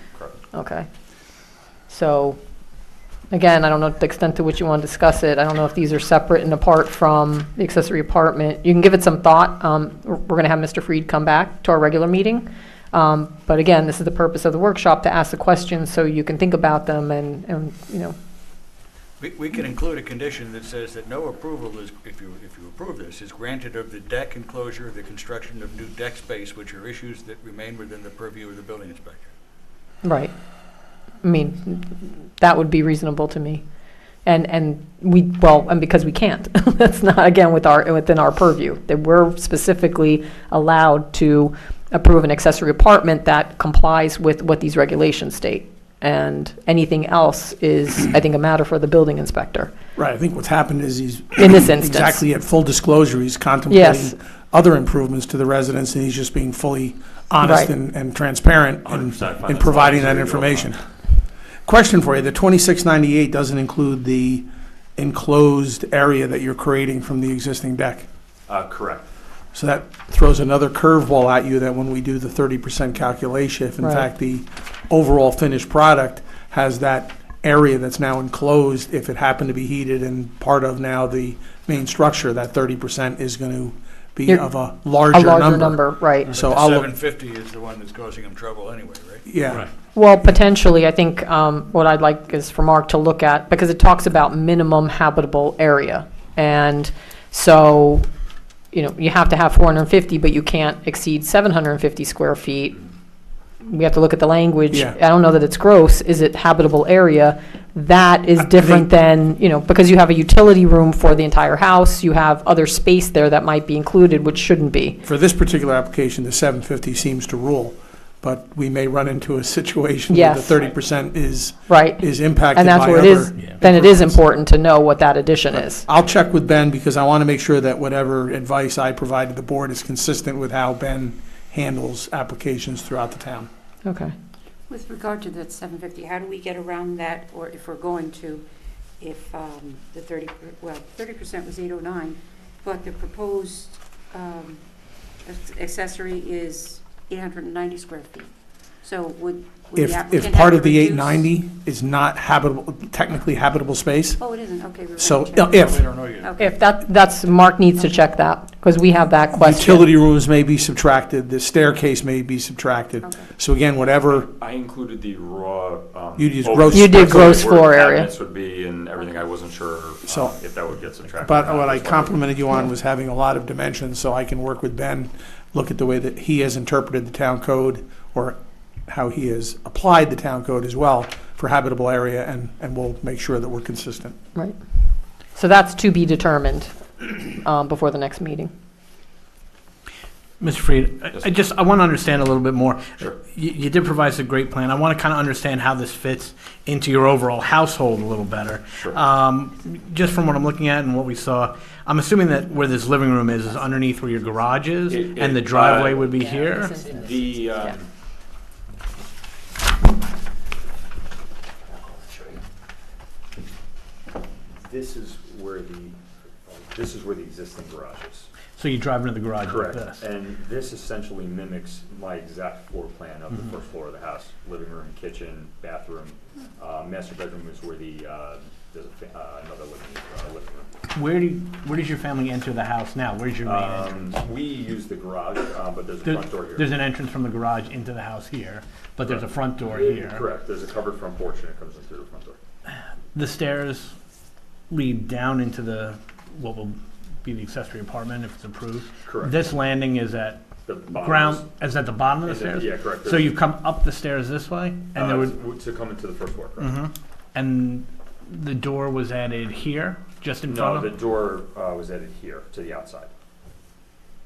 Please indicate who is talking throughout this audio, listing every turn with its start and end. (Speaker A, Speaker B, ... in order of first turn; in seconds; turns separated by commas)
Speaker A: 0.5-0.9, Speaker A: 1.9-2.4, Speaker A: 3.3-18.1, Speaker B: 19.2-29.3, Speaker A: 30.0-30.3, Speaker A: 31.2-33.6, Speaker A: 34.2-49.7, Speaker C: 50.0-60.8, Speaker A: 51.4-52.2, Speaker A: 53.7-54.1, Speaker A: 57.4-57.7, Speaker D: 58.8-60.8, Speaker C: 61.6-68.0, Speaker D: 68.5-69.1, Speaker C: 69.5-86.9, Speaker A: 73.8-74.0, Speaker A: 85.1-86.4, Speaker B: 86.3-89.2, Speaker C: 89.2-89.7, Speaker A: 89.9-98.0, Speaker A: 98.7-102.8, Speaker A: 103.6-115.0, Speaker C: 104.7-105.0, Speaker C: 108.5-108.9, Speaker C: 115.0-124.2, Speaker A: 120.1-120.6, Speaker A: 121.7-125.8, Speaker C: 125.5-133.5, Speaker A: 133.8-134.1, Speaker E: 134.7-138.4, Speaker E: 139.0-144.6, Speaker E: 145.2-148.3, Speaker E: 148.8-151.3, Speaker C: 149.7-154.2, Speaker E: 154.2-156.7, Speaker C: 155.0-155.9, Speaker B: 155.7-156.2, Speaker A: 156.4-159.9, Speaker C: 159.3-164.3, Speaker E: 163.0-163.3, Speaker D: 164.2-172.2, Speaker C: 166.2-167.5, Speaker A: 166.7-168.1, Speaker C: 170.1-170.3, Speaker C: 171.2-184.2, Speaker A: 185.3-188.5, Speaker F: 190.4-206.8, Speaker D: 204.9-206.1, Speaker D: 206.8-207.8, Speaker D: 211.7-212.4, Speaker D: 214.6-218.3, Speaker F: 218.5-220.0, Speaker D: 219.4-230.7, Speaker F: 230.9-234.1, Speaker D: 233.4-236.7, Speaker F: 236.0-240.2, Speaker D: 239.0-242.4, Speaker F: 243.1-243.9, Speaker F: 244.7-255.3, Speaker D: 249.0-249.4, Speaker D: 250.6-251.5, Speaker D: 252.2-253.4, Speaker D: 254.9-256.8, Speaker F: 256.6-260.9, Speaker D: 260.4-263.1